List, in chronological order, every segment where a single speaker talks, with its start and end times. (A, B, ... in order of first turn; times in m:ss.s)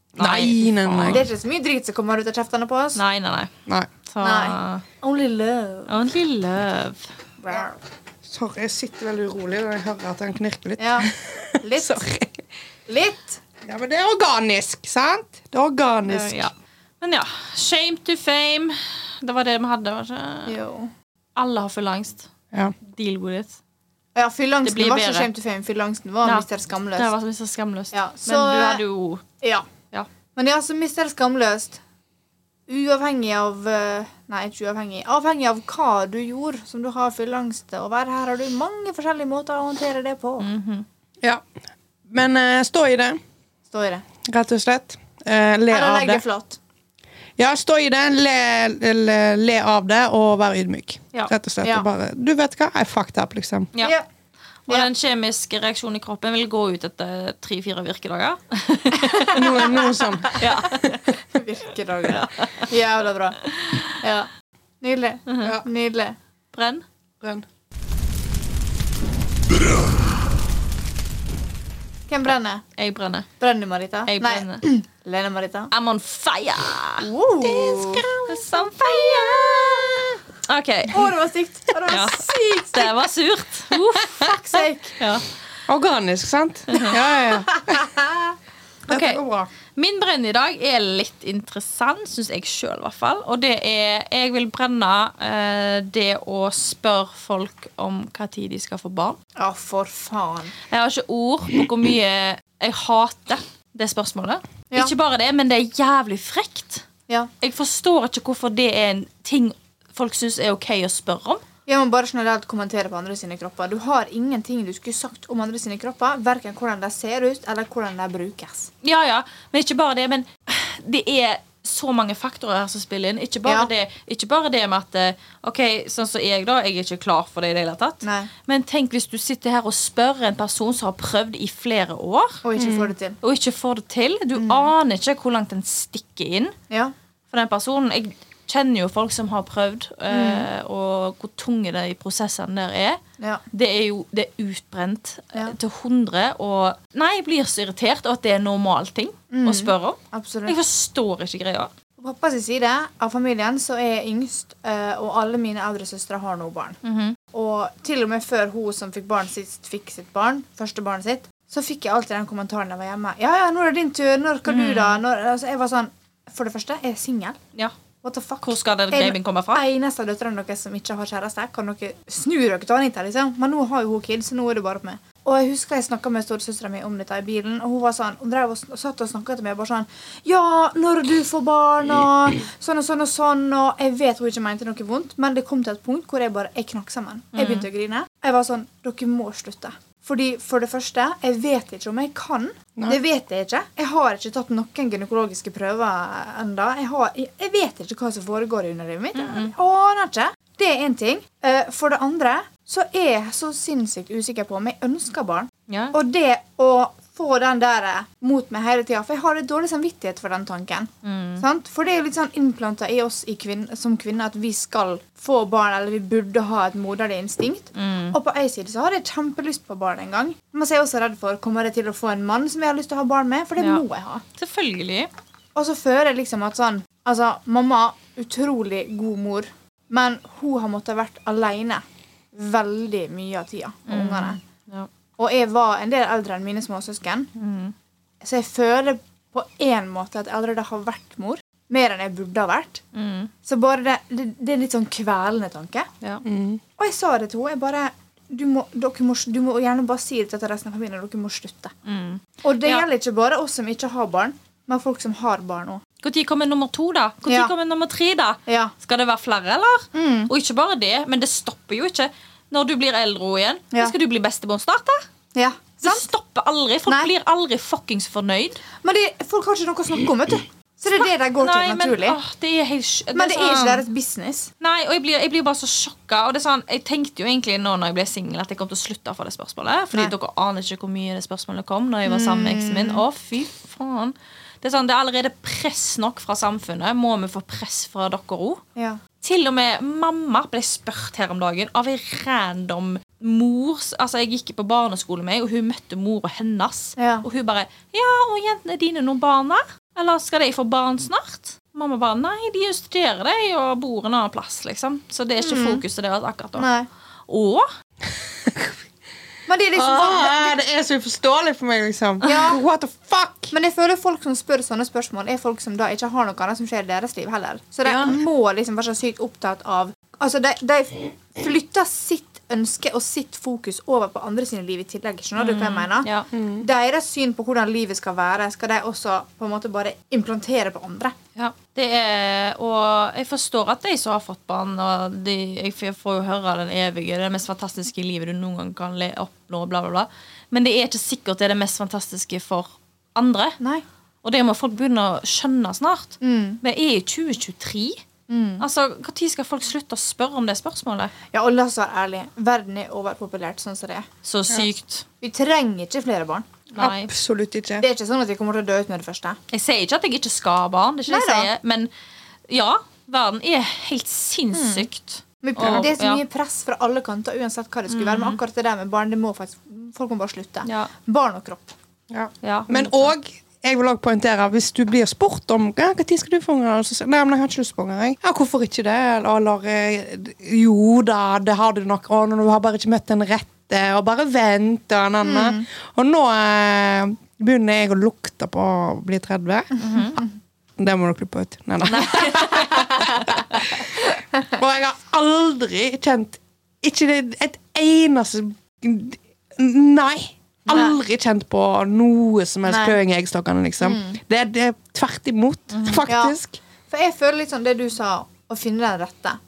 0:00.2-0:01.2 A
0:00.2-0:01.2 B
0:01.0-0:03.0 C
0:03.0-0:03.5 B
0:04.1-0:04.8 B
0:04.2-0:06.0 C
0:05.9-0:07.1 B
0:07.4-0:07.8 C
0:08.3-0:12.4 A
0:10.8-0:12.1 C
0:12.9-0:13.4 C
0:13.6-0:16.5 A
0:16.1-0:20.6 B
0:20.5-0:20.9 C
0:21.4-0:22.3 B
0:22.8-0:23.6 B
0:24.2-0:27.1 C
0:24.6-0:25.3 B
0:26.2-0:29.2 B
0:27.9-0:28.8 C
0:29.4-0:29.7 C
0:30.4-0:31.8 C
0:32.7-0:40.5 C
0:40.4-0:40.8 B
0:42.1-0:43.2 A
0:43.7-0:44.0 C
0:44.2-0:46.2 A
0:45.7-0:46.6 C
0:47.4-0:53.7 A
0:53.8-0:54.0 C
0:54.7-0:59.6 B
0:58.9-1:03.4 C
0:59.3-1:00.9 A
1:00.4-1:01.0 B
1:02.1-1:02.7 B
1:03.4-1:03.9 B
1:04.0-1:04.3 C
1:04.8-1:06.2 C
1:05.3-1:05.6 B
1:06.5-1:06.8 B
1:12.1-1:12.6 C
1:12.8-1:13.3 B
1:13.4-1:15.7 C
1:14.1-1:14.6 B
1:15.7-1:21.1 B
1:17.0-1:20.2 C
1:20.9-1:23.1 C
1:21.9-1:24.4 B
1:24.1-1:25.0 C
1:25.0-1:25.2 B
1:25.7-1:27.9 A
1:26.7-1:27.0 B
1:27.5-1:28.3 C
1:28.9-1:29.2 B
1:28.9-1:29.5 A
1:29.8-1:39.2 B
1:39.4-1:40.5 C
1:40.7-1:46.9 B
1:47.4-1:51.4 B
1:51.7-1:58.7 C
1:58.8-2:12.4 B
2:03.4-2:03.7 C
2:08.0-2:08.3 C
2:12.4-2:13.2 C
2:12.6-2:12.9 A
2:13.2-2:16.6 B
2:14.4-2:14.7 C
2:17.3-2:23.0 B
2:20.1-2:20.5 C
2:23.5-2:31.7 B
2:29.3-2:30.6 C
2:32.0-2:36.8 C
2:36.8-2:37.2 B
2:37.3-2:47.4 C
2:44.5-2:45.0 B
2:48.0-3:44.2 C
2:48.4-2:49.6 B
3:07.4-3:07.7 B
3:19.2-3:19.5 B
3:25.7-3:26.0 B
3:31.0-3:31.4 B
3:37.8-3:38.2 B
3:44.4-3:45.1 B
3:45.6-3:54.4 C
3:53.9-3:54.9 B
3:55.2-3:57.3 C
3:57.4-3:57.7 B
3:58.2-4:02.8 C
4:02.9-4:03.3 B
4:03.4-4:05.9 C
4:06.2-4:06.6 A
4:06.8-4:11.7 C
4:11.9-4:12.8 B
4:12.4-4:15.8 C
4:16.0-4:25.0 B
4:17.3-4:17.5 C
4:18.5-4:18.7 C
4:19.9-4:20.3 C
4:25.4-4:26.1 C
4:25.8-4:28.6 B
4:28.8-4:32.2 C
4:31.0-4:33.8 B
4:33.1-4:34.5 C
4:34.6-4:48.6 B
4:42.1-4:43.0 C
4:49.2-5:06.7 B
4:57.0-4:57.2 C
5:05.4-5:05.8 C
5:06.6-5:06.9 C
5:07.3-5:07.7 B
5:08.3-5:08.8 A
5:09.5-5:10.6 C
5:09.8-5:13.5 A
5:12.2-5:12.6 C
5:13.5-5:31.2 C
5:17.8-5:18.2 A
5:25.4-5:26.3 B
5:26.3-5:26.6 A
5:31.4-5:43.6 B
5:44.2-5:48.0 B
5:46.2-5:46.6 C
5:48.3-5:48.6 C
5:48.6-5:51.1 B
5:51.3-5:54.1 C
5:54.2-5:55.0 B
5:55.2-5:56.5 C
5:56.7-5:57.1 B
5:56.8-5:57.8 A
5:57.8-5:59.4 C
5:59.5-6:01.9 B
6:01.1-6:01.5 C
6:02.5-6:06.2 B
6:04.5-6:04.9 C
6:05.4-6:11.7 C
6:07.9-6:08.4 B
6:10.6-6:10.9 B
6:12.1-6:29.8 A
6:12.4-6:13.1 B
6:25.2-6:25.6 C
6:29.8-6:30.3 C
6:29.8-6:30.2 B
6:30.8-6:33.9 A
6:31.9-6:33.4 B
6:32.3-6:33.1 C
6:34.5-6:46.6 A
6:42.7-6:43.0 C
6:43.8-6:44.2 C
6:45.7-6:46.0 B
6:46.1-6:46.4 C
6:46.9-6:49.4 C